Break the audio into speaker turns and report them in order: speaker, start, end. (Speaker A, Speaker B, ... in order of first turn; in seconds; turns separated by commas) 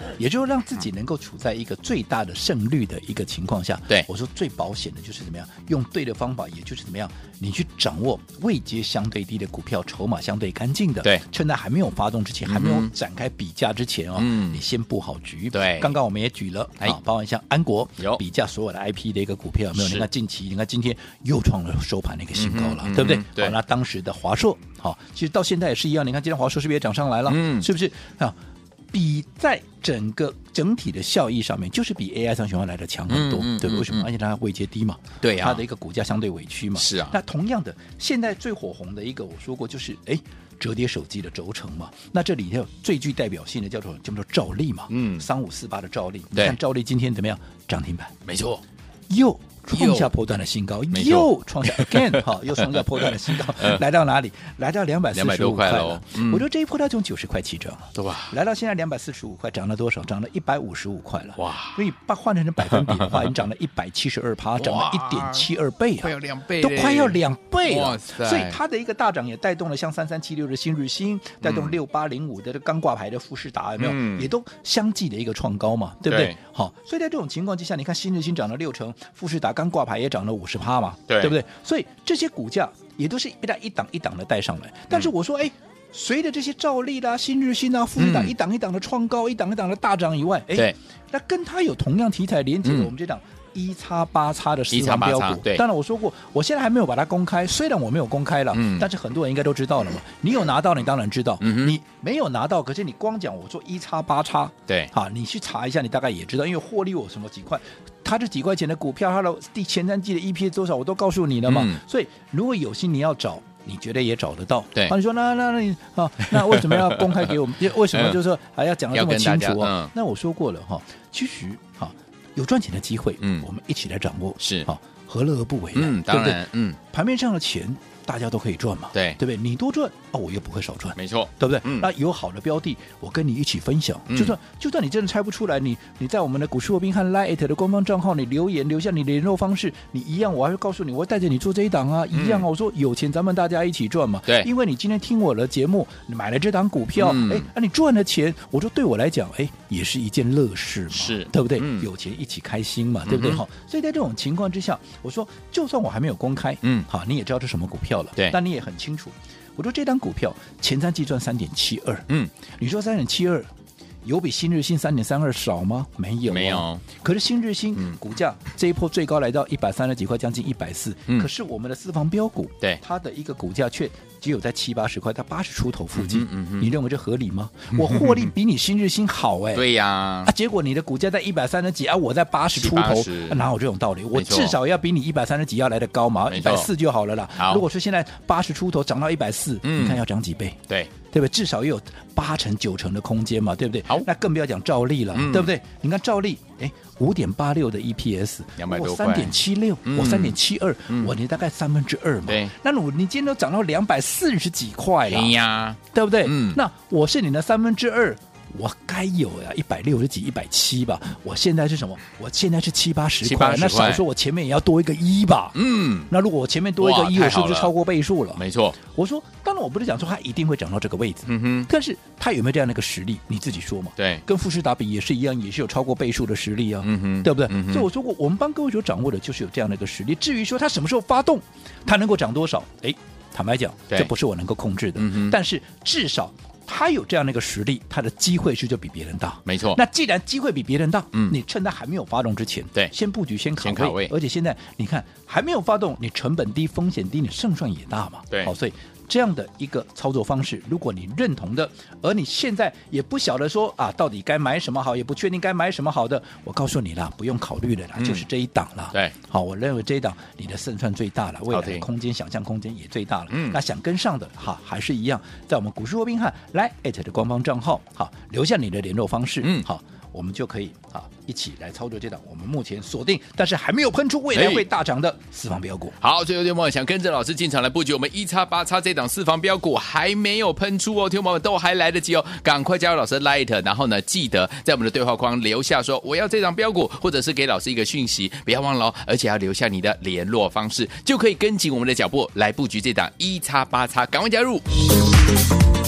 Speaker A: 0.2-28.4, Speaker B: 12.5-12.9, Speaker B: 14.2-14.6, Speaker B: 15.5-15.9, Speaker B: 19.7-20.1, Speaker B: 22.3-23.6, Speaker B: 27.3-27.7, Speaker A: 28.9-48.1, Speaker B: 33.1-34.1, Speaker B: 35.2-35.6, Speaker B: 36.8-37.2, Speaker B: 44.9-45.3, Speaker B: 48.2-48.6, Speaker A: 49.1-163.5, Speaker B: 49.7-50.1, Speaker B: 50.9-53.8, Speaker B: 55.1-56.4, Speaker B: 57.9-58.3, Speaker B: 61.4-61.8, Speaker B: 62.6-63.3, Speaker B: 64.6-65.5, Speaker B: 66.0-68.6, Speaker B: 71.4-71.8, Speaker B: 73.8-74.3, Speaker B: 76.1-76.4, Speaker B: 81.1-81.4, Speaker B: 88.0-88.3, Speaker B: 92.6-92.9, Speaker B: 94.7-95.6, Speaker B: 98.5-98.9, Speaker B: 101.4-101.8, Speaker B: 111.5-111.8, Speaker B: 116.3-117.3, Speaker B: 117.9-118.2, Speaker B: 118.9-119.9, Speaker B: 123.2-123.5, Speaker B: 124.4-124.7, Speaker B: 125.7-126.8, Speaker B: 128.9-129.2, Speaker B: 130.9-131.9, Speaker B: 134.1-134.3, Speaker B: 142.1-142.4, Speaker B: 147.0-147.5, Speaker B: 150.9-151.9, Speaker B: 153.0-153.4, Speaker B: 156.6-156.9, Speaker A: 164.0-179.6, Speaker B: 166.3-166.8, Speaker B: 175.9-176.7, Speaker B: 177.7-178.3, Speaker B: 179.5-180.3, Speaker A: 180.2-205.3, Speaker B: 182.5-183.4, Speaker B: 184.1-184.6, Speaker B: 186.3-186.7, Speaker B: 187.4-187.6, Speaker B: 189.6-190.0, Speaker B: 195.1-195.5, Speaker B: 198.6-200.4, Speaker B: 200.9-201.1, Speaker B: 202.3-202.5, Speaker B: 205.1-206.6, Speaker A: 205.9-275.9, Speaker B: 213.2-214.0, Speaker B: 215.5-216.1, Speaker B: 216.8-217.7, Speaker B: 218.3-218.8, Speaker B: 221.3-221.7, Speaker B: 224.0-224.2, Speaker B: 226.8-227.9, Speaker B: 234.9-235.4, Speaker B: 239.4-239.8, Speaker B: 243.6-244.1, Speaker B: 258.0-258.2, Speaker B: 261.5-261.9, Speaker B: 263.3-263.6, Speaker B: 269.4-269.7, Speaker B: 274.3-274.6, Speaker B: 276.0-294.6